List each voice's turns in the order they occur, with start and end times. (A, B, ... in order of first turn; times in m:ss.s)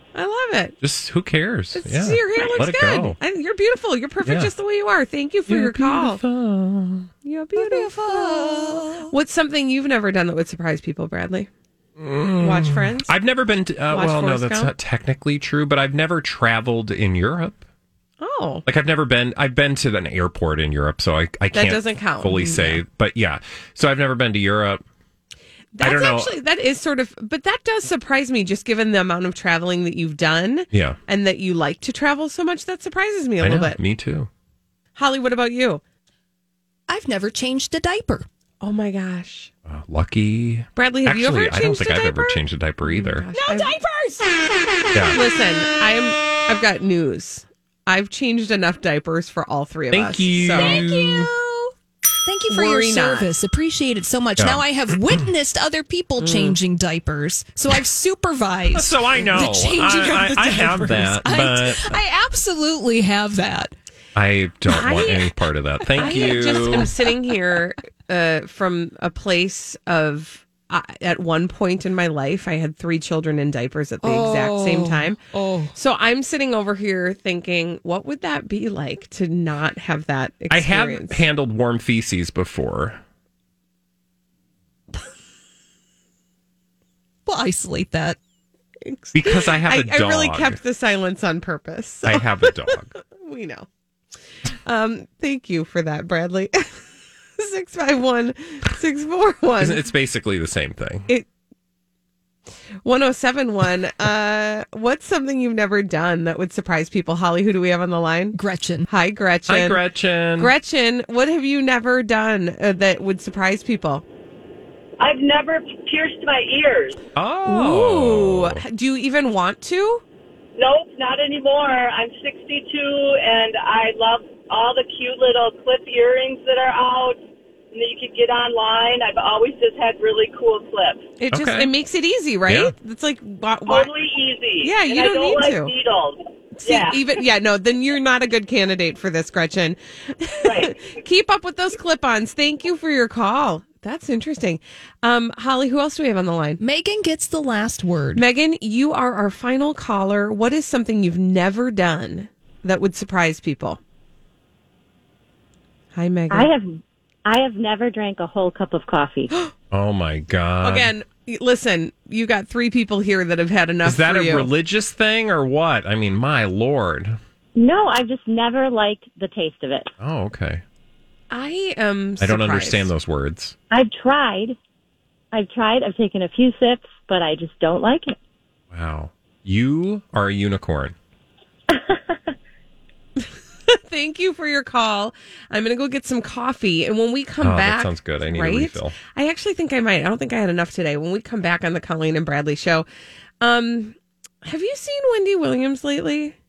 0:00.1-0:00.8 A
0:00.8-0:03.2 B
0:01.7-0:06.2 A
0:04.2-0:04.5 B
0:05.5-0:07.1 B
0:07.2-0:11.5 A
0:07.5-0:09.0 C
0:12.0-0:17.6 B
0:12.4-0:13.1 A
0:13.9-0:14.7 A
0:18.2-0:18.6 A
0:18.6-0:24.8 B
0:21.5-0:22.8 A
0:25.7-0:33.8 A
0:25.8-0:26.3 B
0:30.7-0:31.0 B
0:33.4-0:34.3 B
0:34.9-0:35.8 A
0:36.9-0:38.3 C
0:38.6-0:39.5 A
0:39.7-0:43.3 B
0:40.8-0:43.7 A
0:45.1-0:50.8 A
0:49.9-0:51.3 B
0:50.7-1:03.7 C
0:52.5-0:53.3 A
0:54.4-0:55.2 B
0:56.2-0:56.6 B
0:58.7-1:02.0 B
1:04.1-1:06.9 B
1:04.7-1:05.3 A
1:06.0-1:15.2 A
1:14.0-1:15.7 C
1:15.7-1:21.2 A
1:20.5-1:23.0 B
1:27.3-1:28.2 C
1:28.8-1:33.7 A
1:29.1-1:30.6 B
1:32.0-1:32.9 B
1:34.6-1:36.8 A
1:37.4-1:39.8 A
1:39.6-1:41.1 B
1:42.8-1:48.4 A
1:48.3-1:48.8 C
1:48.9-1:49.8 A
1:49.5-1:50.5 B
1:50.4-1:54.0 A
1:55.0-1:57.0 D
1:57.2-1:58.6 B
1:57.4-2:00.0 A
2:00.6-2:07.2 D
2:07.7-2:11.0 D
2:11.2-2:13.9 A
2:11.3-2:11.7 B
2:12.4-2:12.7 B
2:13.6-2:17.2 D
2:14.6-2:15.7 A
2:16.6-2:26.6 A
2:20.4-2:21.0 D
2:26.6-2:28.2 C
2:28.1-2:33.8 A
2:35.9-2:36.5 A
2:36.3-2:39.3 E
2:39.7-2:40.9 B
2:40.6-2:44.5 A
2:43.8-2:47.2 B
2:47.5-2:49.9 E
2:50.0-2:50.6 B
2:51.3-2:52.9 A
2:52.2-2:53.5 B
2:53.7-2:54.6 E
2:55.3-2:58.2 E
2:58.7-3:01.0 B
3:01.8-3:02.3 E
3:03.2-3:12.8 A
3:07.4-3:09.0 B
3:13.4-3:16.3 A